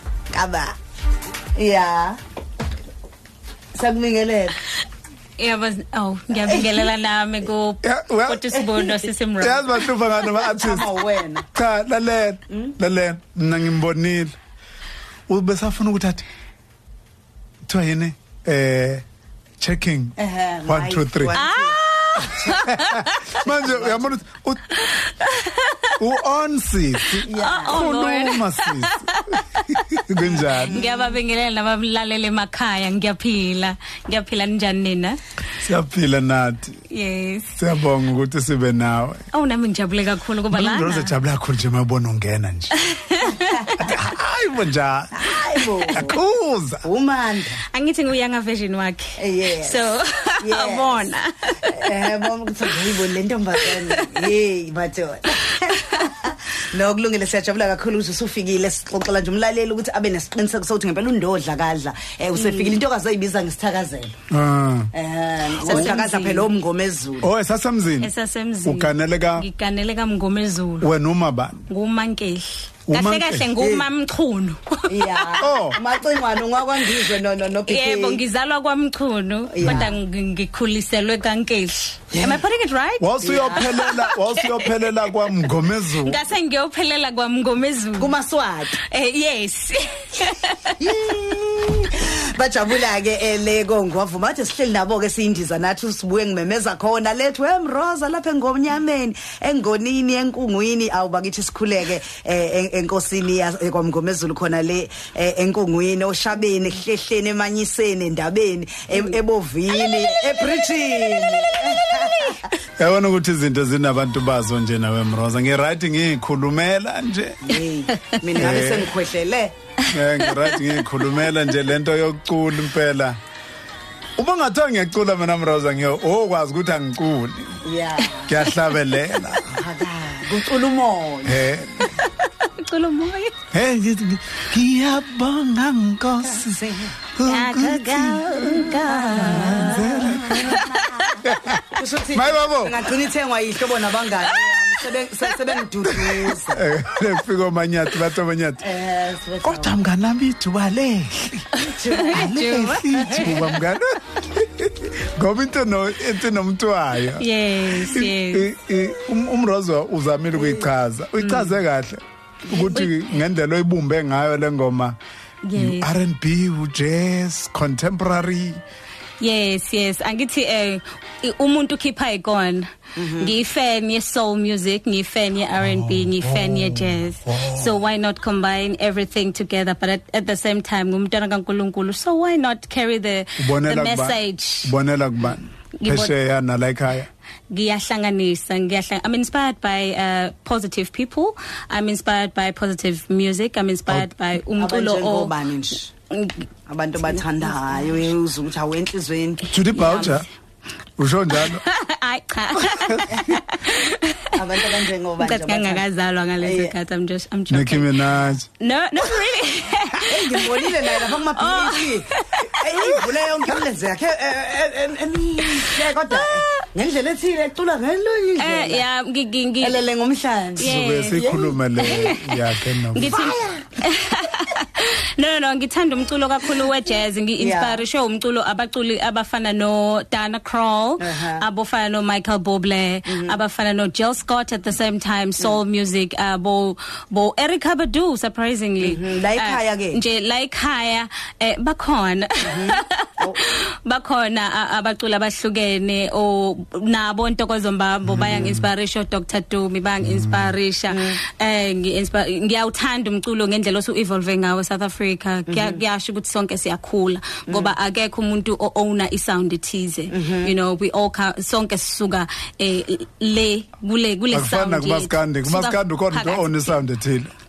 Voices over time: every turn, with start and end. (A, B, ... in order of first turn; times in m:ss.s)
0:00.3-0:00.8 A
0:01.6-0:02.2 A
0:03.8-0:04.6 A
0:05.4-0:10.3 B
0:06.3-0:06.9 A
0:07.8-0:08.4 C
0:08.5-0:09.0 A
0:09.4-0:10.9 C
0:10.5-0:11.5 A
0:11.5-0:14.3 C
0:15.3-0:16.3 C
0:17.7-0:19.0 C
0:19.6-0:20.2 C
0:20.2-0:21.8 A
0:20.7-0:21.4 C
0:21.3-0:23.5 B
0:22.5-0:24.8 C
0:23.5-0:24.2 A
0:24.8-0:26.0 B
0:26.0-0:30.8 C
0:27.0-0:29.4 B
0:27.2-0:27.8 A
0:30.2-0:31.1 A
0:30.5-0:35.2 B
0:35.6-0:36.8 C
0:36.9-0:37.6 B
0:37.6-0:39.2 C
0:39.3-0:41.1 B
0:40.5-0:42.8 C
0:42.7-0:43.9 B
0:43.8-0:45.4 C
0:45.2-0:46.2 A
0:45.9-0:46.8 C
0:46.8-0:47.6 A
0:47.7-0:52.1 B
0:49.2-0:49.8 A
0:50.4-0:51.1 A
0:51.7-1:04.1 A
0:53.6-0:54.3 B
0:55.4-0:56.3 B
1:02.4-1:02.8 B
1:04.3-1:04.9 C
1:04.9-1:07.3 A
1:05.6-1:06.0 C
1:05.6-1:06.5 B
1:07.2-1:08.1 C
1:08.0-1:10.9 B
1:08.6-1:09.5 C
1:10.8-1:11.6 C
1:11.7-1:15.6 B
1:12.9-1:13.5 C
1:13.6-1:13.9 A
1:14.9-1:18.2 A
1:15.4-1:15.8 C
1:17.7-1:25.1 B
1:19.5-1:19.9 A
1:22.1-1:22.4 A
1:23.0-1:26.2 C
1:23.2-1:23.8 A
1:26.0-1:28.2 B
1:28.0-1:28.8 A
1:28.9-1:30.8 B
1:30.8-1:52.4 A
1:49.7-1:50.7 B
1:51.5-1:52.5 B
1:52.8-1:57.4 C
1:57.4-1:59.5 A
1:57.9-1:58.5 B
1:58.4-1:58.9 C
1:59.8-2:01.4 B
1:59.9-2:03.2 C
2:04.2-2:07.6 C
2:07.6-2:08.4 A
2:08.0-2:08.7 B
2:08.3-2:09.6 C
2:09.5-2:11.4 A
2:11.2-2:11.9 C
2:11.8-2:13.4 B
2:13.5-2:22.9 C
2:16.3-2:17.0 A
2:17.2-2:21.4 B
2:18.8-2:19.9 A
2:20.5-2:21.0 A
2:21.8-2:26.7 A
2:24.2-2:24.6 B
2:25.9-2:28.7 C
2:28.6-2:29.8 A
2:29.4-2:45.0 C
2:31.5-2:33.6 B
2:31.8-2:33.4 A
2:37.2-2:38.5 B
2:40.4-2:40.7 A
2:41.2-2:41.6 B
2:42.5-2:43.1 B
2:45.4-2:45.9 B
2:45.5-2:48.6 C
2:49.2-3:04.7 B
2:53.0-2:53.4 A
2:55.6-2:57.7 C
3:03.4-3:07.1 C
3:05.8-3:06.1 B
3:07.5-3:15.3 B
3:14.6-3:15.9 A
3:16.1-3:16.5 B
3:16.7-3:20.2 A
3:17.0-3:17.9 B
3:19.5-3:20.3 C
3:19.7-3:20.2 B
3:21.0-3:21.6 C
3:21.3-3:24.3 B
3:22.7-3:23.2 C
3:24.3-3:25.9 A
3:25.2-3:32.7 B
3:26.4-3:26.7 A
3:27.5-3:28.5 C
3:30.0-3:38.9 A
3:35.4-3:36.6 B
3:38.4-3:39.8 B
3:39.6-3:41.6 A
3:40.6-4:26.7 B
3:40.6-3:43.3 C
3:43.1-3:43.8 A
3:47.4-3:47.8 A
3:51.0-3:51.4 A
3:53.1-3:53.4 A
3:58.8-4:00.0 A
4:02.4-4:03.4 A
4:08.1-4:08.7 C
4:10.1-4:10.5 C
4:10.9-4:11.2 A
4:15.5-4:15.8 A
4:17.5-4:17.8 A
4:20.1-4:20.5 A
4:24.3-4:27.3 C